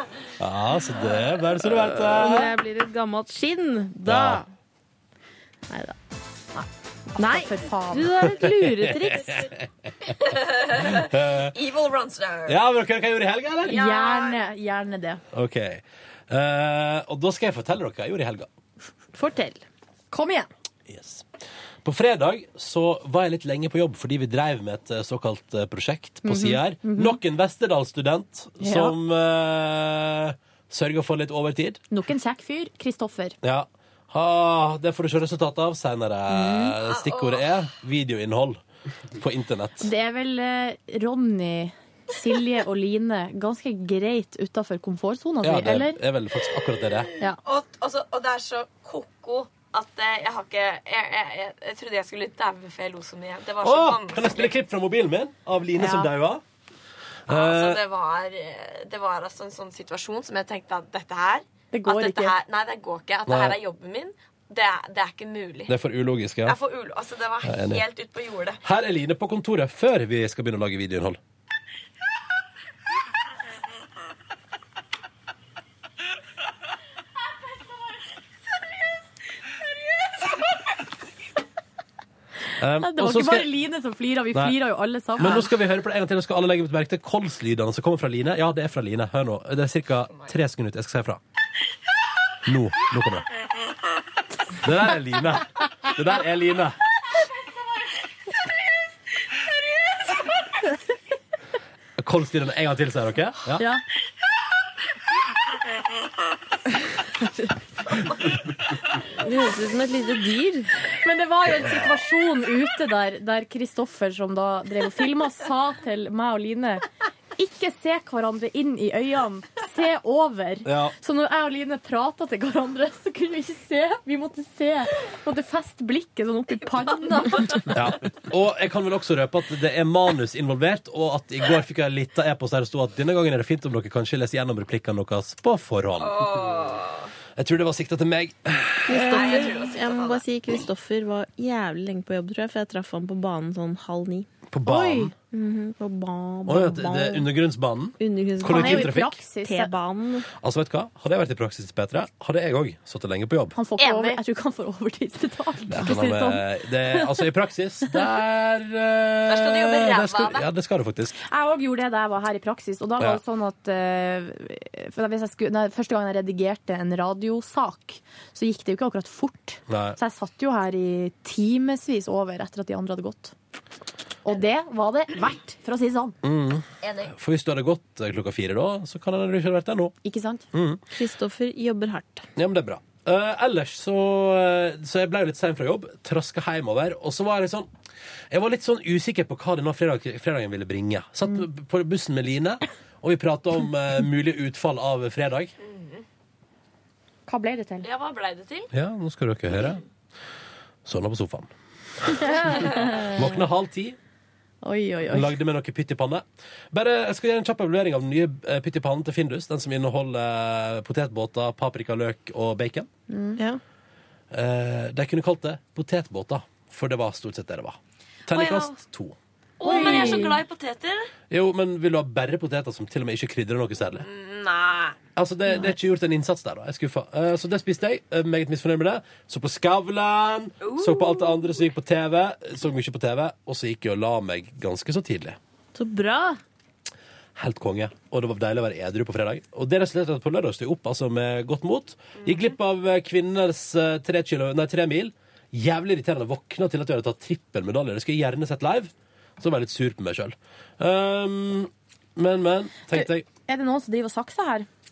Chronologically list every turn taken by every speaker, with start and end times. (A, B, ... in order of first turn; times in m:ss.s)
0:00.4-0:02.4 A
0:01.6-0:04.5 B
0:04.0-0:04.4 A
0:05.7-0:05.9 B
0:06.5-0:08.2 C
0:07.2-0:09.5 B
0:09.0-0:09.6 A
0:10.1-0:12.6 D
0:10.8-0:11.5 A
0:12.4-0:13.8 A
0:13.7-0:15.2 C
0:13.7-0:14.4 D
0:15.3-0:18.5 A
0:19.2-0:20.5 C
0:20.9-0:21.2 A
0:21.8-0:31.8 A
0:26.2-0:27.2 C
0:28.6-0:29.0 C
0:31.9-0:33.4 C
0:33.4-0:38.6 A
0:36.4-0:36.7 B
0:37.0-0:37.4 D
0:39.1-0:39.9 A
0:39.8-0:46.0 C
0:45.4-0:47.1 A
0:47.4-0:54.5 D
0:53.6-0:56.4 A
0:55.8-0:56.1 C
0:57.3-0:57.8 A
0:57.3-1:05.7 D
1:01.7-1:02.4 C
1:03.3-1:03.6 A
1:05.7-1:06.6 A
1:06.4-1:08.6 D
1:07.4-1:07.8 A
1:08.6-1:11.2 A
1:22.6-1:23.6 A
1:22.8-1:25.5 C
1:25.2-1:31.2 A
1:32.4-1:33.3 A
1:34.6-1:36.8 A
1:42.0-1:43.6 A
1:49.1-1:50.7 B
1:50.9-1:56.8 C
1:57.4-2:07.7 C
2:00.6-2:00.9 A
2:06.6-2:07.7 D
2:07.7-2:16.4 A
2:16.0-2:17.1 D
2:17.4-2:18.9 A
2:18.9-2:24.3 B
2:18.9-2:20.2 D
2:24.5-2:25.1 A
2:24.6-2:25.1 C
2:25.3-2:27.3 B
2:26.5-2:29.2 A
2:28.0-2:30.3 B
2:28.4-2:29.7 C
2:30.4-2:33.5 A
2:33.5-2:37.1 C
2:33.8-2:34.2 D
2:35.7-2:41.2 A
2:39.3-2:40.4 D
2:41.3-2:53.3 C
2:49.7-2:50.0 A
2:54.2-2:56.1 C
2:56.2-2:59.9 A
2:56.8-2:57.1 D
3:00.0-3:00.4 C
3:00.5-3:00.8 A
3:00.9-3:02.3 B
3:02.4-3:07.7 A
3:08.3-3:15.5 A
3:15.6-3:16.0 D
3:17.3-3:17.9 C
3:17.8-3:18.7 D
3:18.7-3:19.8 A
3:20.8-3:21.5 A
3:22.0-3:22.3 A
3:22.1-3:23.0 C
3:23.0-3:24.0 A
3:24.6-3:25.3 C
3:25.1-3:32.9 A
3:33.1-3:33.4 C
3:34.3-3:39.2 A
3:38.3-3:38.8 D
3:39.6-3:41.1 D
3:39.6-3:40.4 C
3:39.7-3:40.4 B
3:41.3-3:44.0 A
3:44.0-3:45.0 D
3:45.2-3:55.4 A
3:50.6-3:51.3 D
3:55.7-3:56.4 B
3:57.4-4:13.2 A
4:12.9-4:14.7 C